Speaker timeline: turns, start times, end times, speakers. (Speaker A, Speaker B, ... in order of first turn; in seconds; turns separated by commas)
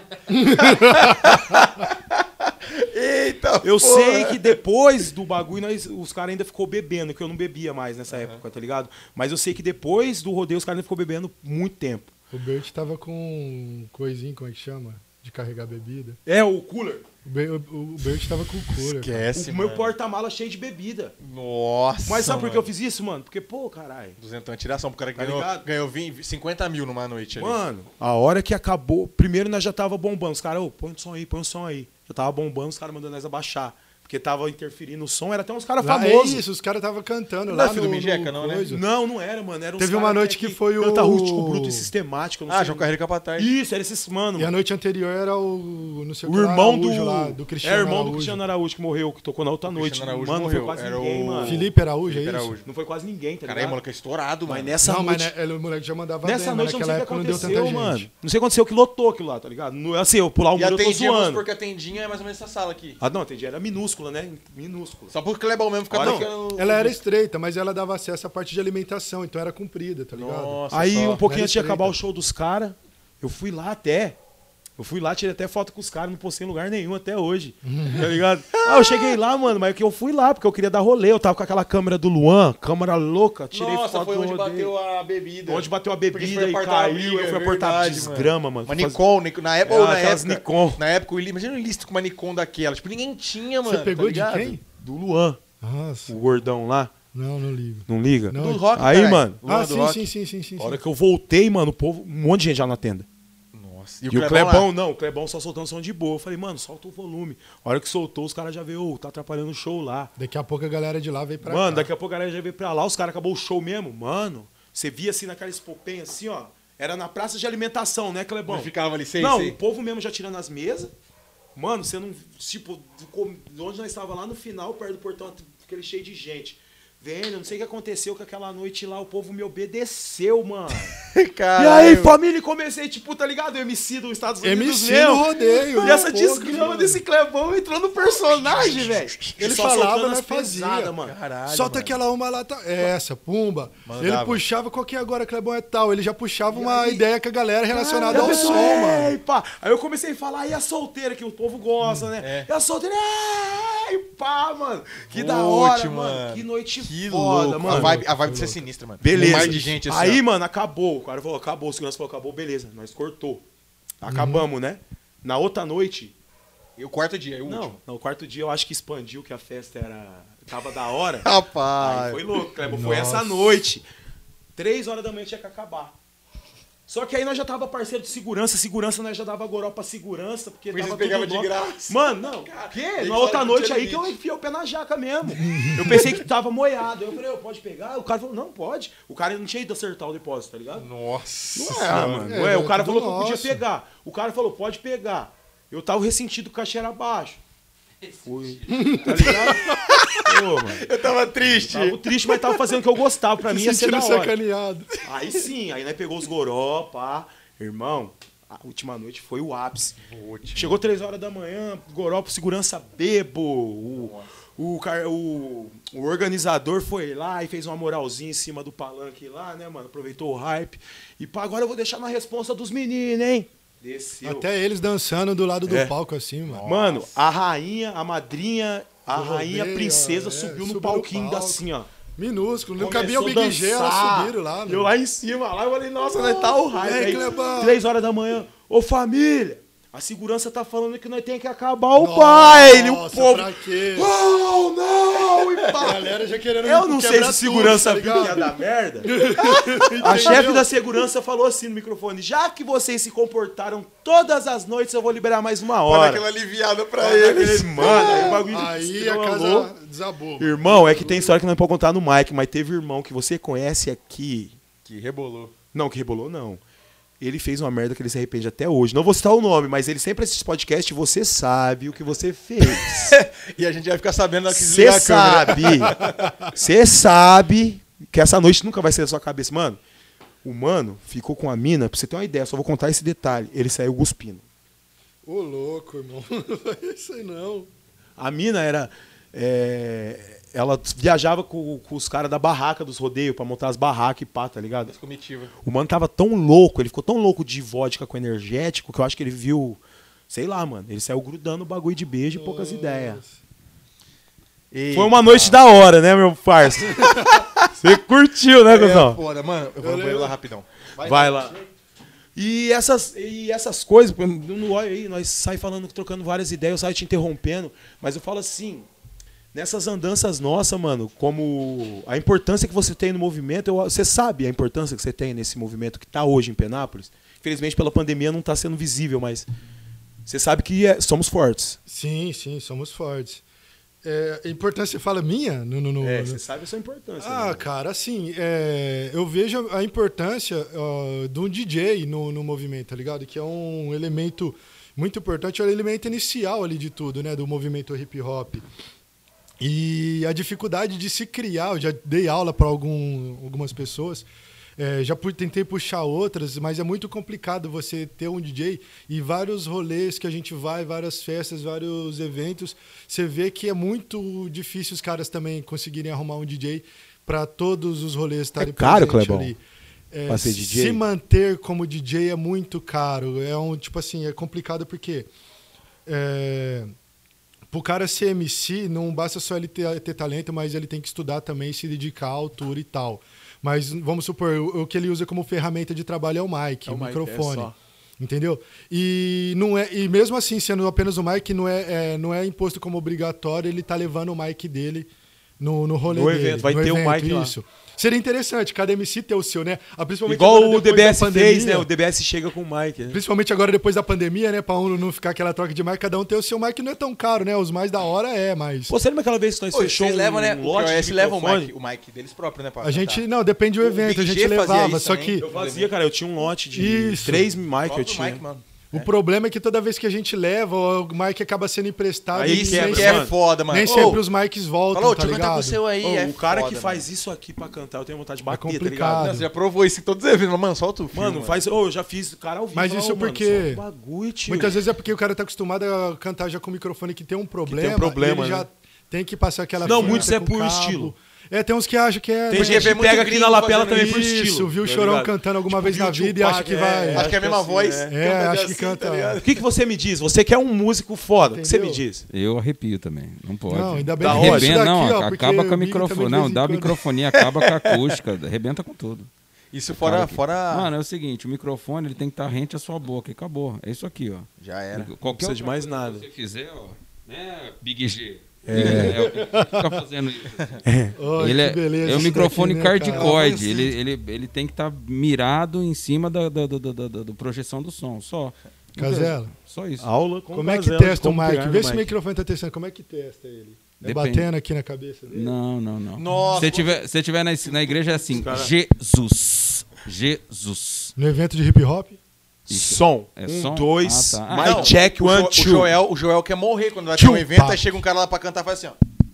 Speaker A: 0.3-1.3, Speaker B: 0.6-4.5, Speaker C: 3.6-12.1, Speaker B: 8.1-8.4, Speaker A: 12.3-16.2, Speaker C: 16.2-17.0, Speaker A: 17.2-19.3, Speaker B: 18.8-19.9, Speaker C: 19.3-21.1, Speaker B: 21.2-22.7, Speaker C: 22.1-24.2, Speaker B: 24.2-27.6, Speaker C: 25.1-25.7, Speaker C: 27.4-36.4, Speaker A: 35.8-38.8, Speaker B: 37.5-38.7, Speaker C: 38.7-44.5, Speaker A: 39.8-41.9, Speaker B: 42.5-43.5, Speaker A: 44.4-48.4, Speaker C: 46.2-51.6, Speaker B: 49.7-52.7, Speaker A: 51.4-52.5, Speaker C: 52.6-53.8, Speaker B: 53.4-54.8, Speaker C: 54.5-55.3, Speaker A: 54.8-58.1, Speaker C: 56.2-61.4, Speaker B: 57.3-57.6, Speaker B: 60.5-63.0, Speaker C: 63.0-65.1, Speaker B: 65.1-67.0, Speaker C: 65.9-66.3, Speaker A: 66.0-70.6, Speaker B: 70.1-71.3, Speaker C: 70.7-74.2, Speaker A: 71.2-72.0, Speaker C: 74.8-84.7, Speaker A: 77.6-78.1, Speaker B: 78.6-79.1, Speaker B: 83.5-94.6, Speaker C: 85.5-89.0, Speaker C: 89.6-90.8, Speaker A: 93.6-94.6, Speaker C: 94.8-95.4, Speaker A: 95.6-96.2, Speaker C: 96.1-96.9, Speaker A: 97.1-98.7, Speaker C: 97.9-99.4, Speaker B: 98.3-100.0, Speaker A: 99.4-100.8, Speaker C: 100.6-103.0, Speaker B: 103.5-104.7, Speaker C: 104.1-110.1, Speaker A: 110.2-111.9, Speaker C: 111.4-120.9, Speaker B: 118.5-119.6, Speaker C: 121.5-130.9, Speaker B: 131.0-132.2, Speaker C: 131.6-141.1, Speaker A: 134.4-137.0, Speaker B: 138.1-139.4, Speaker A: 139.4-140.9, Speaker B: 141.0-142.0, Speaker A: 141.5-149.2, Speaker B: 143.8-144.4, Speaker C: 146.5-147.0, Speaker C: 147.7-158.0, Speaker B: 148.1-149.0, Speaker A: 151.8-152.1, Speaker B: 152.2-152.5, Speaker B: 155.1-160.2, Speaker A: 157.6-159.8, Speaker C: 159.0-163.4, Speaker C: 164.0-166.2, Speaker A: 164.1-164.5, Speaker B: 166.8-167.8, Speaker C: 167.4-173.8, Speaker B: 171.2-172.2, Speaker A: 172.7-173.6, Speaker C: 174.6-175.9, Speaker C: 176.9-190.8, Speaker B: 180.7-184.1, Speaker A: 185.3-186.2, Speaker B: 190.8-192.4, Speaker C: 191.5-197.4, Speaker A: 192.2-193.6, Speaker C: 198.2-200.8, Speaker A: 198.7-200.1, Speaker B: 199.5-202.0, Speaker C: 201.5-204.3, Speaker A: 203.4-205.0, Speaker C: 205.0-210.0, Speaker B: 210.0-210.8, Speaker C: 210.5-224.5, Speaker B: 213.9-214.3, Speaker A: 224.2-226.7, Speaker C: 225.7-225.9, Speaker B: 226.4-227.2, Speaker C: 226.6-231.9, Speaker A: 229.1-234.9, Speaker C: 232.8-246.1, Speaker B: 236.1-236.6, Speaker A: 236.7-237.8, Speaker A: 241.9-244.1, Speaker A: 245.7-248.5, Speaker C: 246.6-249.2, Speaker A: 249.0-250.7, Speaker B: 249.3-250.4, Speaker C: 249.9-256.2, Speaker B: 255.8-258.4, Speaker C: 257.0-259.7, Speaker A: 257.8-261.3, Speaker C: 260.4-264.6, Speaker B: 264.8-265.5, Speaker C: 265.7-266.6, Speaker C: 267.2-273.2, Speaker B: 272.6-276.3, Speaker C: 274.5-279.8, Speaker A: 276.0-276.3, Speaker C: 280.4-284.4, Speaker A: 285.2-287.7, Speaker C: 288.2-294.9, Speaker B: 294.9-295.5, Speaker C: 295.6-299.8, Speaker C: 300.3-303.2, Speaker A: 302.3-303.4, Speaker B: 304.7-305.6, Speaker C: 304.9-307.1, Speaker B: 307.1-307.7, Speaker C: 307.8-309.2, Speaker B: 308.7-311.6, Speaker A: 309.8-310.3, Speaker C: 311.0-311.6, Speaker C: 312.4-318.9, Speaker C: 319.5-329.5, Speaker C: 330.2-331.8, Speaker A: 331.9-333.4, Speaker A: 334.0-336.4, Speaker C: 336.0-337.6, Speaker A: 337.2-348.6, Speaker A: 349.6-369.6, Speaker C: 368.6-369.5, Speaker A: 370.1-375.3, Speaker C: 370.3-371.0, Speaker A: 376.1-376.9, Speaker A: 377.7-401.9, Speaker C: 386.9-387.7, Speaker C: 396.1-397.5, Speaker C: 400.2-403.2, Speaker A: 403.1-408.9, Speaker C: 408.9-411.7, Speaker B: 409.7-413.2, Speaker A: 412.8-415.4, Speaker B: 413.8-415.9, Speaker C: 415.4-418.4, Speaker A: 416.7-417.5, Speaker B: 417.8-419.1, Speaker A: 418.9-425.8, Speaker C: 422.3-424.2, Speaker B: 422.4-424.2, Speaker B: 424.9-427.0, Speaker C: 426.0-429.3, Speaker A: 428.5-429.5, Speaker B: 429.1-431.6, Speaker C: 431.1-434.8, Speaker A: 432.7-433.8, Speaker A: 434.4-443.0, Speaker C: 437.6-438.7, Speaker C: 439.8-441.1, Speaker B: 439.9-440.3, Speaker C: 442.5-448.1, Speaker B: 442.5-444.2, Speaker A: 443.9-447.3, Speaker B: 447.1-449.6, Speaker A: 448.1-449.4, Speaker C: 449.4-452.2, Speaker A: 451.5-452.0, Speaker D: 452.3-459.3, Speaker A: 453.7-457.0, Speaker C: 454.2-454.8, Speaker B: 457.4-458.1, Speaker B: 459.7-460.9, Speaker D: 460.0-470.8, Speaker B: 464.6-465.1, Speaker C: 465.2-466.3, Speaker C: 468.6-469.3, Speaker A: 468.7-470.0, Speaker C: 470.8-471.1, Speaker A: 471.1-473.9, Speaker D: 471.4-478.5, Speaker A: 478.9-479.5, Speaker C: 479.0-479.3, Speaker D: 479.6-480.1, Speaker C: 480.0-482.1, Speaker A: 480.5-485.5, Speaker D: 484.0-484.5, Speaker D: 485.3-491.1, Speaker B: 486.1-487.0, Speaker C: 488.3-488.7, Speaker A: 491.1-492.2, Speaker C: 492.7-495.9, Speaker D: 492.7-494.9, Speaker B: 494.6-499.0, Speaker A: 497.1-498.0